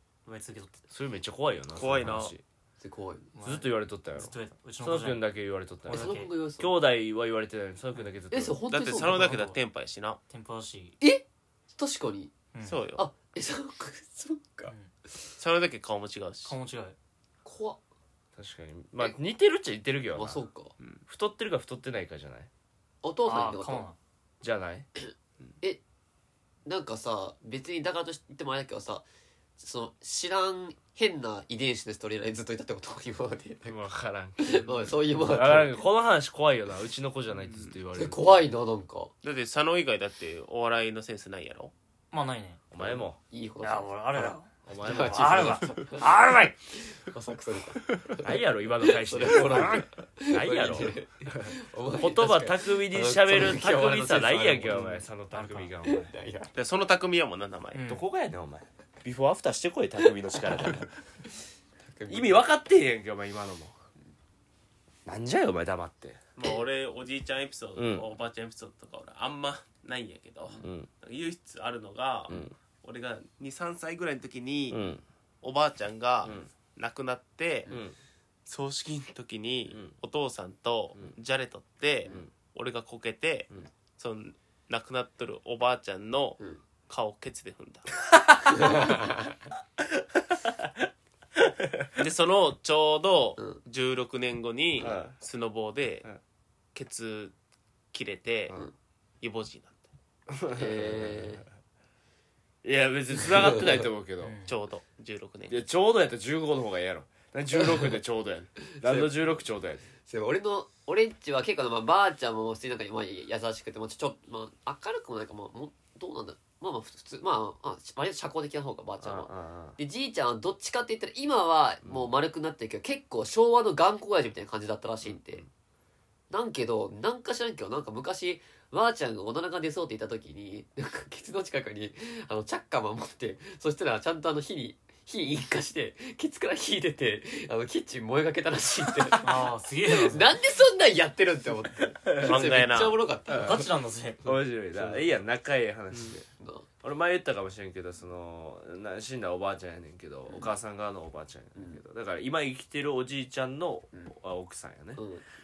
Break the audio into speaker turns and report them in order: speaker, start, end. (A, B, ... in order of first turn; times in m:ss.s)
0:00.2-0:00.8 A
0:00.9-0:02.4 B
0:01.7-0:02.3 C
0:02.8-0:03.3 D
0:03.4-0:05.3 A
0:03.4-0:08.6 B
0:05.8-0:06.3 A
0:05.9-0:06.7 D
0:08.3-0:09.5 D
0:08.7-0:10.2 C
0:09.1-0:09.6 A
0:10.3-0:11.0 A
0:11.0-0:12.3 D
0:12.5-0:12.8 A
0:12.6-0:13.0 C
0:13.0-0:14.7 D
0:15.4-0:16.6 C
0:16.4-0:17.0 A
0:17.4-0:17.8 D
0:18.4-0:20.4 B
0:20.2-0:20.7 D
0:21.1-0:22.5 B
0:23.0-0:23.9 D
0:23.3-0:24.0 A
0:24.4-0:24.9 B
0:25.0-0:25.8 D
0:26.7-0:29.0 D
0:29.6-0:33.9 D
0:33.7-0:38.3 B
0:34.4-0:35.8 D
0:37.4-0:37.7 C
0:37.9-0:39.1 D
0:39.2-0:41.7 C
0:42.1-0:42.6 A
0:42.7-0:43.2 B
0:42.8-0:46.1 D
0:43.6-0:46.6 A
0:44.7-0:45.7 B
0:46.8-0:54.9 D
0:48.2-0:56.1 B
0:54.7-0:55.7 A
0:55.8-0:56.5 D
0:56.6-0:57.8 C
0:57.7-0:58.0 A
0:57.9-1:00.9 B
1:01.8-1:02.4 D
1:02.1-1:03.7 B
1:05.1-1:06.2 B
1:06.4-1:14.8 C
1:07.8-1:08.1 B
1:10.6-1:10.9 B
1:14.7-1:15.0 B
1:15.4-1:17.7 C
1:16.2-1:16.5 B
1:17.7-1:18.0 B
1:18.5-1:27.9 C
1:28.1-1:29.0 B
1:28.5-1:29.3 D
1:29.8-1:30.8 B
1:31.4-1:31.9 B
1:32.0-1:36.1 C
1:34.8-1:35.2 B
1:36.7-1:37.4 C
1:37.9-1:38.6 C
1:39.2-1:39.9 C
1:40.3-1:41.4 B
1:40.5-1:41.4 D
1:42.6-1:44.4 B
1:44.2-1:44.6 A
1:44.4-1:45.6 C
1:45.5-1:49.9 B
1:50.1-2:05.4 D
1:59.0-1:59.8 B
2:06.3-2:23.7 D
2:19.2-2:20.3 A
2:22.0-2:22.5 B
2:22.2-2:23.0 C
2:23.3-2:24.3 A
2:24.2-2:26.3 B
2:25.9-2:26.2 C
2:26.4-2:26.7 D
2:26.8-2:35.0 B
2:30.3-2:30.5 D
2:35.0-2:35.2 D